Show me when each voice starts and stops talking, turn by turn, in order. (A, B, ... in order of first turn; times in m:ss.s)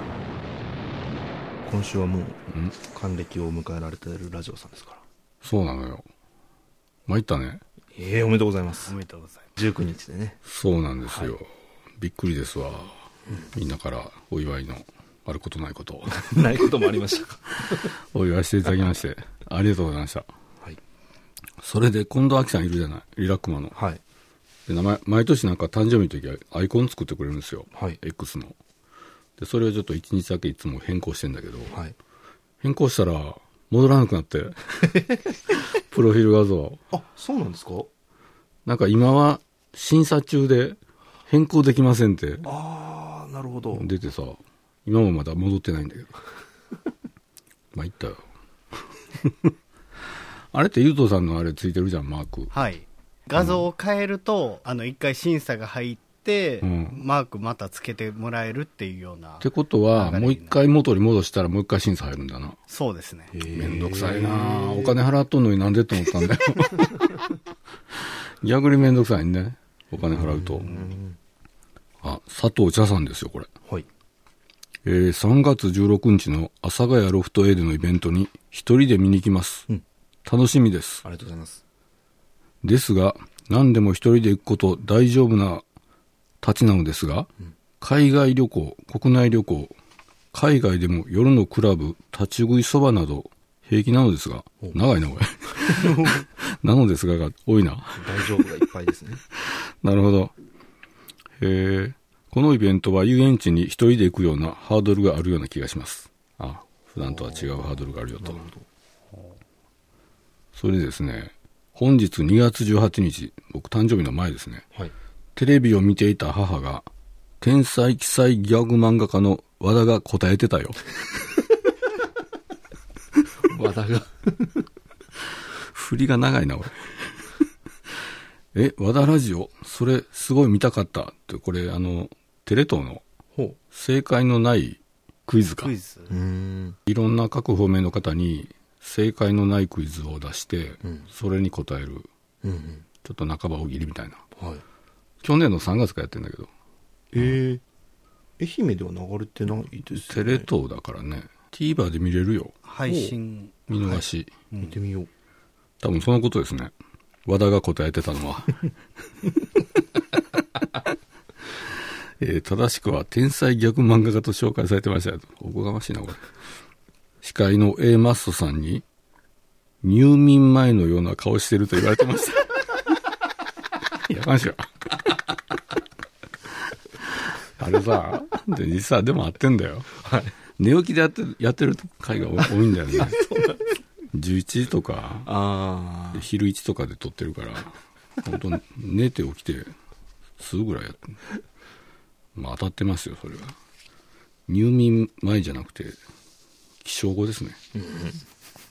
0:01.6-0:02.4 A
0:02.5-0:02.8 B
0:02.9-0:05.0 A
0:05.4-0:06.1 B
0:07.1-0:07.6 B
0:08.0-0:08.9 A
0:08.8-0:09.5 C
0:09.6-0:10.4 A
0:10.5-0:16.7 B
0:11.1-0:11.3 A
0:16.1-0:17.9 A
0:17.6-0:20.3 B
0:21.6-0:23.8 B
0:23.7-0:24.0 A
0:24.7-0:28.6 B
0:27.7-0:28.0 A
0:29.4-0:31.8 B
0:32.6-0:35.0 B
0:35.5-0:36.8 B
0:36.9-0:37.9 A
0:38.6-0:42.5 B
0:42.4-0:43.9 A
0:43.7-0:46.1 B
0:47.7-0:48.2 B
0:49.2-0:49.5 B
0:50.5-0:52.5 B
0:52.5-1:00.6 C
0:53.3-0:53.6 B
0:56.6-0:57.0 B
0:59.4-1:02.6 B
1:02.7-1:03.3 C
1:03.3-1:05.0 A
1:03.5-1:07.2 B
1:07.9-1:10.7 B
1:10.1-1:11.2 A
1:12.0-1:13.5 B
1:14.8-1:19.7 B
1:20.2-1:21.0 B
1:21.0-1:21.6 A
1:22.6-1:25.6 B
1:26.4-1:27.3 B
1:27.8-1:29.7 B
1:30.3-1:38.5 B
1:38.0-1:39.2 A
1:39.4-1:40.3 B
1:41.4-1:48.4 B
1:47.0-1:48.6 A
1:50.6-1:54.6 B
1:55.4-1:56.9 B
1:57.4-2:01.4 B
2:03.4-2:04.6 A
2:05.4-2:07.3 B
2:08.5-2:13.0 B
2:13.7-2:15.7 B
2:15.6-2:16.1 C
2:16.1-2:16.8 A
2:16.9-2:22.1 B
2:20.8-2:21.1 A
2:22.4-2:22.8 A
2:23.0-2:24.2 B
2:24.4-2:24.6 A
2:25.2-2:26.5 B
2:27.1-2:27.6 A
2:28.4-2:30.5 A
2:29.9-2:32.6 B
2:32.7-2:33.5 C
2:32.9-2:33.2 A
2:33.7-2:34.3 B
2:33.7-2:34.0 A
2:34.6-2:35.1 A
2:35.8-2:36.7 B
2:37.2-2:38.7 B
2:41.5-2:46.3 B
2:47.2-2:48.8 B
2:49.8-2:52.8 B
2:53.9-2:55.1 B
2:57.0-2:59.9 B
3:00.0-3:00.3 A
3:00.6-3:03.2 B
3:03.0-3:03.6 A
3:04.1-3:05.3 B
3:05.2-3:06.3 A
3:06.1-3:09.7 B
3:10.4-3:11.2 B
3:12.4-3:13.6 B
3:14.5-3:16.0 B
3:16.8-3:17.6 B
3:17.7-3:18.2 A